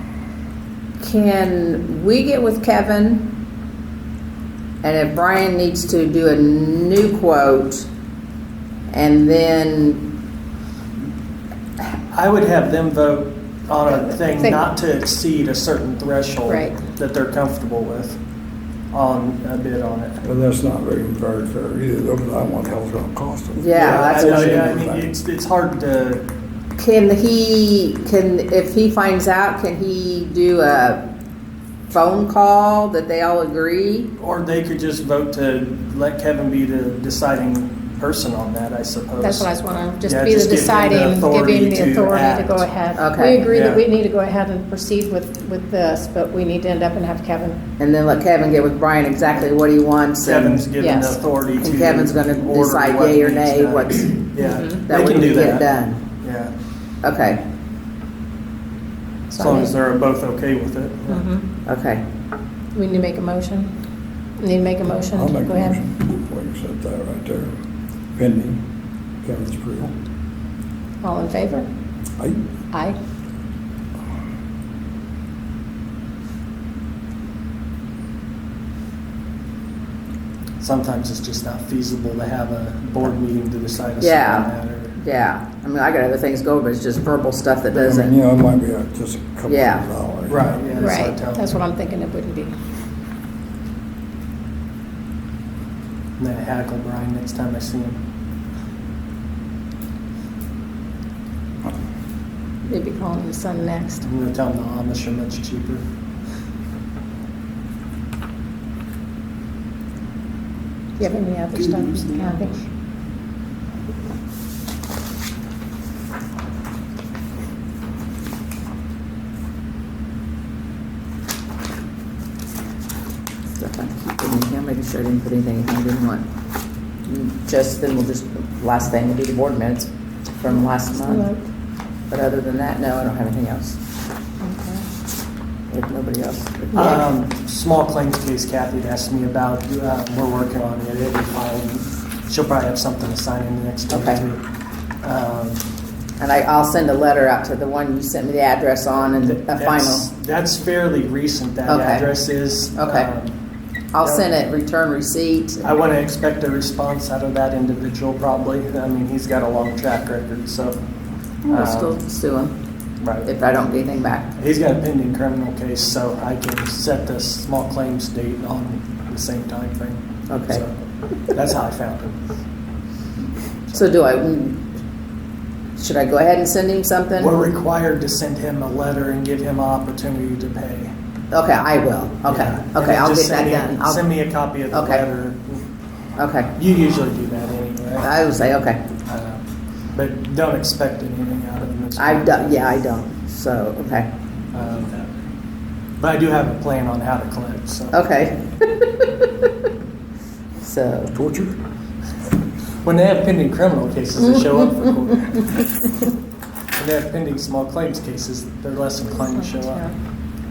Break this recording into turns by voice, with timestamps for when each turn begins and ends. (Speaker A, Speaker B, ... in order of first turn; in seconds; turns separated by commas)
Speaker A: 1.0-3.3, Speaker A: 4.8-7.8, Speaker A: 8.9-10.1, Speaker B: 12.1-18.2, Speaker C: 13.9-14.6, Speaker C: 16.5-16.8, Speaker B: 18.9-20.2, Speaker D: 20.2-25.1, Speaker A: 23.5-24.5, Speaker B: 23.7-26.2, Speaker A: 26.8-31.0, Speaker A: 31.9-34.1, Speaker B: 34.2-39.5, Speaker C: 39.2-47.6, Speaker B: 40.0-42.7, Speaker A: 43.0-43.5, Speaker B: 43.5-43.8, Speaker A: 47.8-50.7, Speaker B: 50.2-55.7, Speaker C: 50.8-51.2, Speaker A: 51.6-56.0, Speaker C: 54.4-54.8, Speaker B: 56.2-56.5, Speaker A: 57.0-57.4, Speaker C: 59.3-59.7, Speaker B: 59.4-61.3, Speaker C: 61.1-61.4, Speaker A: 61.6-62.0, Speaker C: 62.7-63.7, Speaker C: 64.4-65.8, Speaker D: 65.1-67.5, Speaker D: 68.1-68.6, Speaker D: 69.2-69.9, Speaker C: 71.0-71.7, Speaker D: 72.2-72.5, Speaker B: 80.6-85.0, Speaker A: 84.0-88.1, Speaker D: 87.7-90.5, Speaker A: 89.5-89.8, Speaker B: 90.3-91.5, Speaker C: 90.7-92.5, Speaker B: 96.2-98.0, Speaker C: 102.6-104.0, Speaker B: 104.0-105.8, Speaker C: 111.0-112.6, Speaker A: 123.5-126.3, Speaker A: 127.0-131.3, Speaker C: 130.5-131.4, Speaker A: 132.1-133.8, Speaker C: 134.4-134.8, Speaker A: 135.7-137.0, Speaker B: 136.7-144.4, Speaker C: 136.8-137.0, Speaker A: 143.9-144.2, Speaker B: 145.0-145.6, Speaker A: 146.2-150.1, Speaker B: 149.1-153.3, Speaker A: 151.7-152.1, Speaker A: 152.7-153.1, Speaker A: 153.9-155.7, Speaker B: 154.0-154.3, Speaker B: 155.6-160.8, Speaker A: 161.4-162.5, Speaker B: 161.5-161.9, Speaker B: 163.0-163.3, Speaker A: 163.2-164.3, Speaker B: 164.3-170.7, Speaker A: 170.3-170.6, Speaker B: 171.3-172.3, Speaker A: 173.7-174.6, Speaker A: 175.8-177.3, Speaker B: 177.2-180.9, Speaker A: 181.3-184.1, Speaker B: 182.2-185.6, Speaker A: 184.7-185.0, Speaker A: 186.2-186.5, Speaker B: 186.5-188.1, Speaker A: 188.0-188.8, Speaker B: 189.1-189.4, Speaker B: 189.9-192.8, Speaker A: 192.0-194.1, Speaker B: 194.5-195.0, Speaker B: 196.0-198.0, Speaker A: 197.9-199.1, Speaker A: 200.6-201.1, Speaker D: 201.1-201.6, Speaker B: 202.8-205.5, Speaker B: 206.8-209.9, Speaker C: 209.3-209.9